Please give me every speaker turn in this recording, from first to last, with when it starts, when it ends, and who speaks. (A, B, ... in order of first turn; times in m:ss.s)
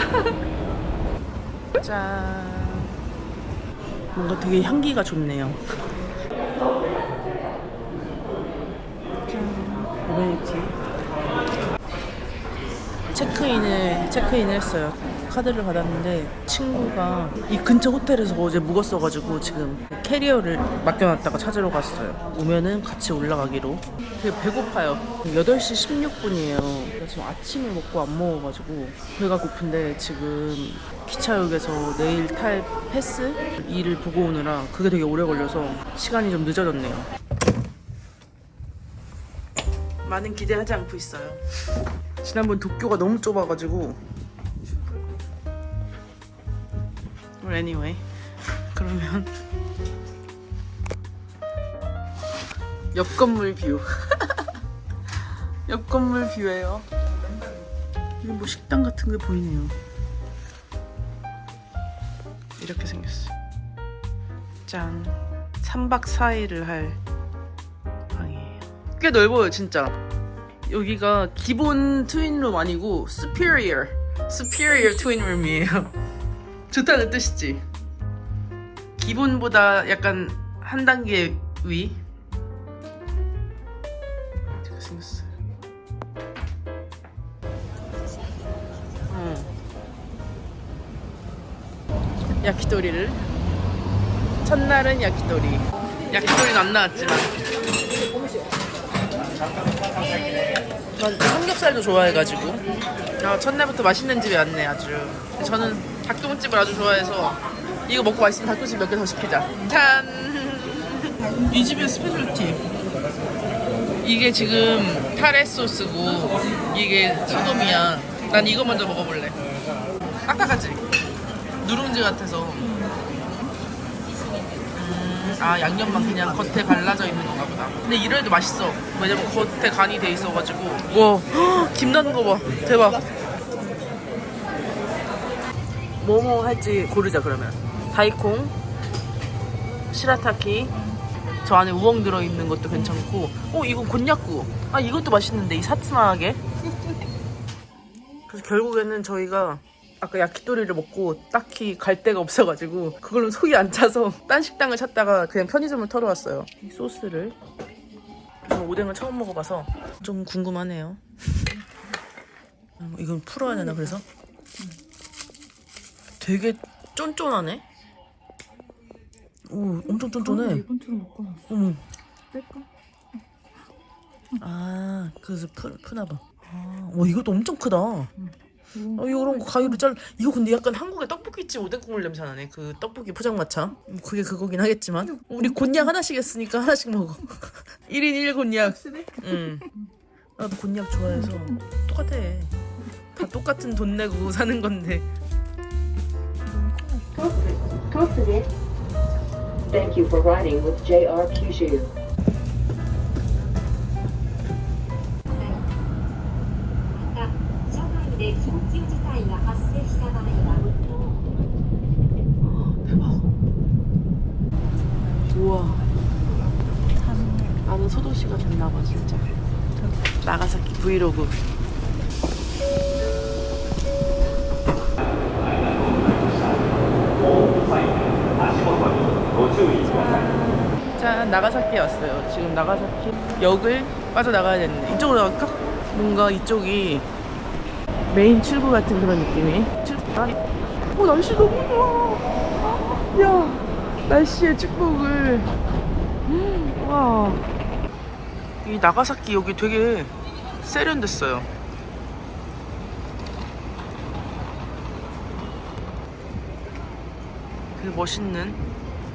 0:01.8-0:03.0 A
0:04.1-0:05.6 A
0:09.3-0:10.8 A
0:13.1-0:37.1 A
0:40.0-0:41.4 A
0:42.2-0:44.0 A
0:47.4-0:48.0 A
0:48.7-0:49.3 A
0:52.9-0:54.4 A
0:55.7-0:56.9 A
0:58.2-0:59.8 A
1:02.6-1:03.3 A
1:04.7-1:07.0 A
1:08.1-1:10.0 A
1:10.7-1:15.9 A
1:16.7-1:17.6 A
1:19.0-1:22.0 A
1:24.6-1:25.3 A
1:29.1-1:29.5 A
1:32.4-1:33.3 A
1:34.4-1:37.3 A
1:41.0-1:42.6 A
1:43.2-1:52.6 A
1:54.0-1:59.4 A
2:00.3-2:00.8 A
2:01.6-2:02.7 A
2:02.6-2:03.5 B
2:04.8-2:13.1 A
2:16.0-2:18.5 A
2:19.9-2:20.8 A
2:21.4-2:26.4 A
2:28.3-2:37.4 A
2:38.4-2:41.0 A
2:42.8-2:44.0 A
2:46.2-2:47.6 A
2:49.5-2:50.6 A
2:50.0-2:51.4 B
2:51.5-2:51.8 A
2:52.3-2:52.7 B
2:54.4-2:58.1 A
2:58.8-2:59.6 B
2:58.9-3:09.7 A
3:10.4-3:12.5 A
3:13.1-3:15.1 A
3:16.5-3:17.3 B
3:17.7-3:18.5 C
3:19.7-3:21.9 C
3:28.0-3:28.9 C
3:32.4-3:33.3 A
3:35.3-3:35.8 A
3:37.0-3:37.6 B
3:37.6-3:39.3 A
3:40.2-3:41.4 A
3:49.8-3:57.0 A
3:58.1-4:00.4 A
4:00.9-4:02.4 A
4:03.1-4:05.5 A
4:06.3-4:07.4 A
4:08.6-4:11.5 A
4:17.8-4:18.6 A